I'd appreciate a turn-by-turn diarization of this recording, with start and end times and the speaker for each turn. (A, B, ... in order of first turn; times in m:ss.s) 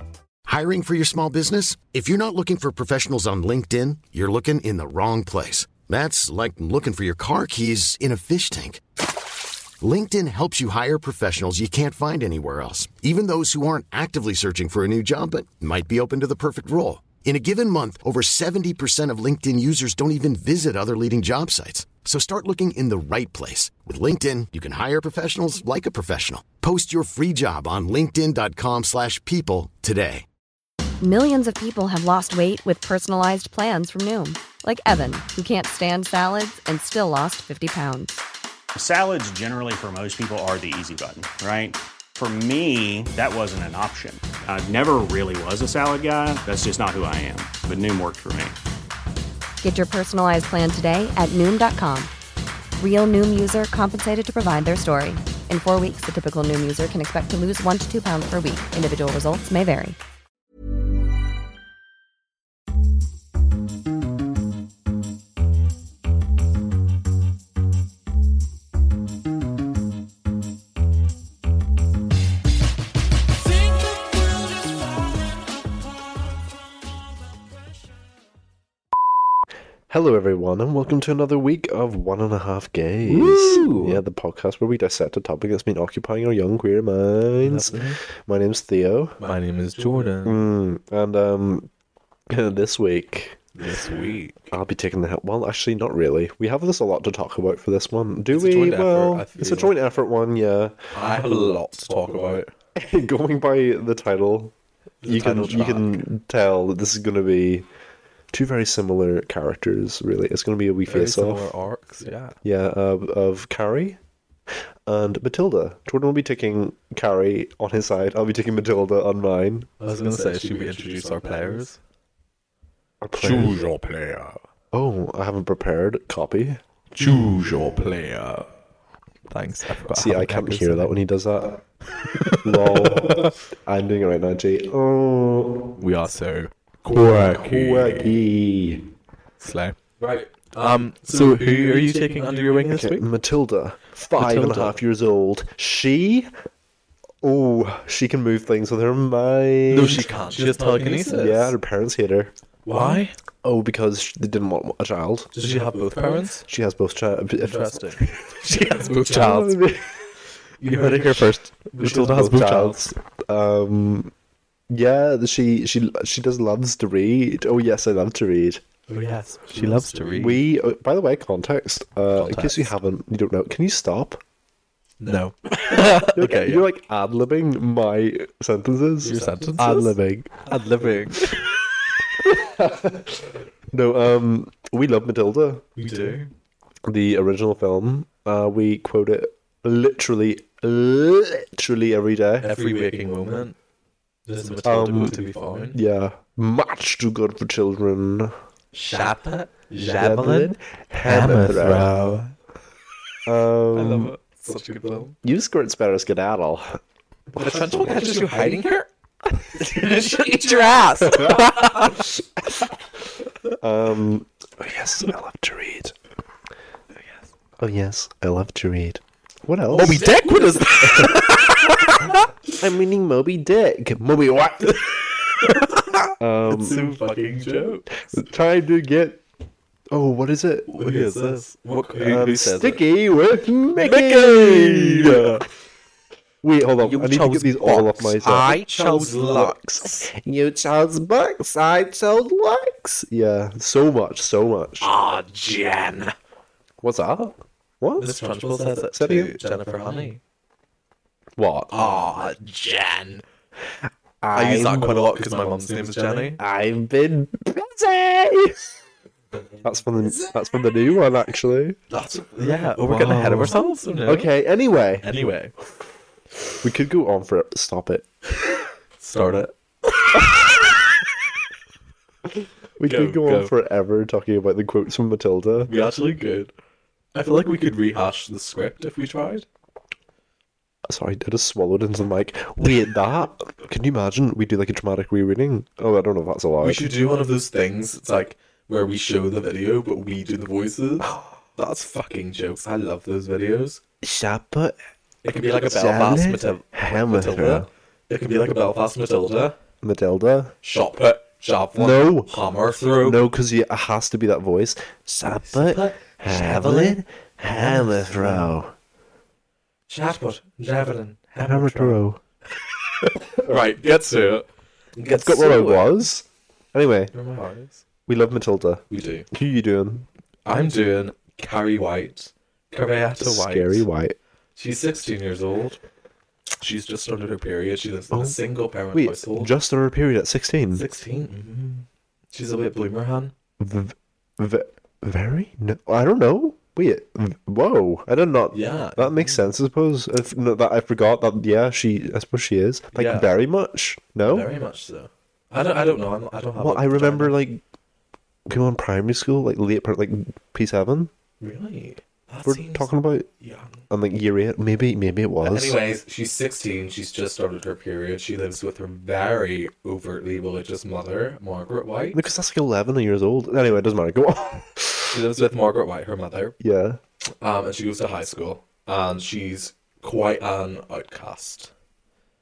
0:00.4-0:08.8 A
0:09.8-0:30.2 A
0:31.0-0:38.2 B
0:38.7-0:48.6 C
0:49.6-0:52.1 B
0:52.8-1:00.0 B
1:19.9-1:29.2 D
1:23.1-1:24.0 E
1:27.4-1:28.0 E
1:29.2-1:30.4 E
1:30.1-1:31.7 D
1:32.3-1:33.4 D
1:33.5-1:34.4 E
1:34.5-1:40.8 D
1:38.3-1:39.7 E
1:40.9-1:42.5 E
1:42.7-1:47.6 D
1:45.0-1:46.0 E
1:48.3-1:51.5 D
1:50.8-1:52.4 E
1:52.4-1:54.0 D
1:54.8-1:59.7 D
1:59.8-2:01.8 E
2:03.0-2:03.6 D
2:03.2-2:04.4 E
2:04.7-2:06.6 D
2:06.9-2:08.5 E
2:09.3-2:11.0 E
2:09.9-2:11.6 D
2:12.0-2:13.3 E
2:12.3-2:15.7 D
2:15.8-2:18.1 E
2:16.9-2:18.9 D
2:19.4-2:23.0 E
2:21.1-2:22.0 D
2:22.7-2:26.3 D
2:24.1-2:24.8 E
2:27.2-2:35.3 D
2:29.7-2:31.5 E
2:32.6-2:33.1 E
2:35.3-2:36.4 E
2:36.0-2:40.1 D
2:37.4-2:39.6 E
2:40.6-2:42.8 E
2:40.6-2:44.1 D
2:44.7-2:48.6 D
2:48.9-2:50.4 E
2:49.5-2:54.2 D
2:52.1-2:52.7 E
2:55.0-2:56.6 E
2:55.6-3:00.5 D
2:59.0-3:01.6 E
3:02.2-3:05.6 D
3:05.8-3:06.3 E
3:06.8-3:12.5 D
3:12.4-3:13.5 E
3:14.2-3:15.8 E
3:14.6-3:15.2 D
3:15.7-3:18.3 D
3:18.7-3:22.3 E
3:20.0-3:21.9 D
3:23.2-3:24.2 D
3:23.7-3:25.1 E
3:25.2-3:26.8 D
3:27.3-3:28.9 E
3:27.4-3:28.2 D
3:29.4-3:32.0 E
3:31.0-3:32.2 D
3:33.6-3:35.9 D
3:37.6-3:41.3 D
3:39.7-3:42.2 E
3:42.6-3:44.9 D
3:44.7-3:48.2 E
3:46.2-3:47.0 D
3:48.0-3:49.2 D
3:49.9-3:55.4 D
3:50.7-3:52.8 E
3:53.8-3:55.4 E
3:56.4-4:04.9 D
3:56.8-4:00.1 E
4:04.8-4:06.1 E
4:06.8-4:08.2 D
4:08.0-4:10.2 E
4:08.9-4:09.4 D
4:11.4-4:11.7 D
4:11.7-4:13.2 E
4:14.2-4:15.1 D
4:14.3-4:16.4 E
4:16.4-4:18.8 D
4:19.6-4:21.8 D
4:21.9-4:24.3 E
4:22.8-4:25.0 D
4:25.0-4:25.5 E
4:26.6-4:28.0 D
4:29.0-4:30.5 E
4:32.8-4:35.7 D
4:32.8-4:33.5 E
4:35.7-4:36.5 E
4:37.1-4:39.4 E
4:40.8-4:46.8 D
4:46.6-4:53.8 E
4:54.0-4:54.8 D
4:55.2-4:59.6 E
4:55.4-4:57.7 D
4:59.8-5:00.5 D
5:00.6-5:03.2 E
5:01.7-5:02.3 D
5:03.0-5:08.7 D
5:05.4-5:08.6 E
5:09.9-5:12.0 E
5:11.4-5:12.2 D
5:12.6-5:16.1 E
5:15.1-5:17.1 D
5:17.1-5:17.8 E
5:18.1-5:20.1 D
5:18.9-5:19.2 E
5:20.4-5:23.9 E
5:23.2-5:24.2 D
5:24.6-5:25.8 E
5:26.6-5:29.5 E
5:28.1-5:28.4 D
5:28.9-5:30.8 D
5:30.7-5:33.3 E
5:33.6-5:44.5 D
5:38.5-5:39.5 E
5:42.9-5:43.3 E
5:44.2-5:47.4 E
5:46.6-5:47.6 D
5:48.5-5:51.1 D
5:51.4-5:53.8 E
5:52.4-5:53.3 D
5:53.9-5:55.8 D
5:55.4-6:02.2 E
6:02.1-6:05.2 D
6:05.1-6:06.6 E
6:06.6-6:07.0 D
6:07.4-6:11.7 E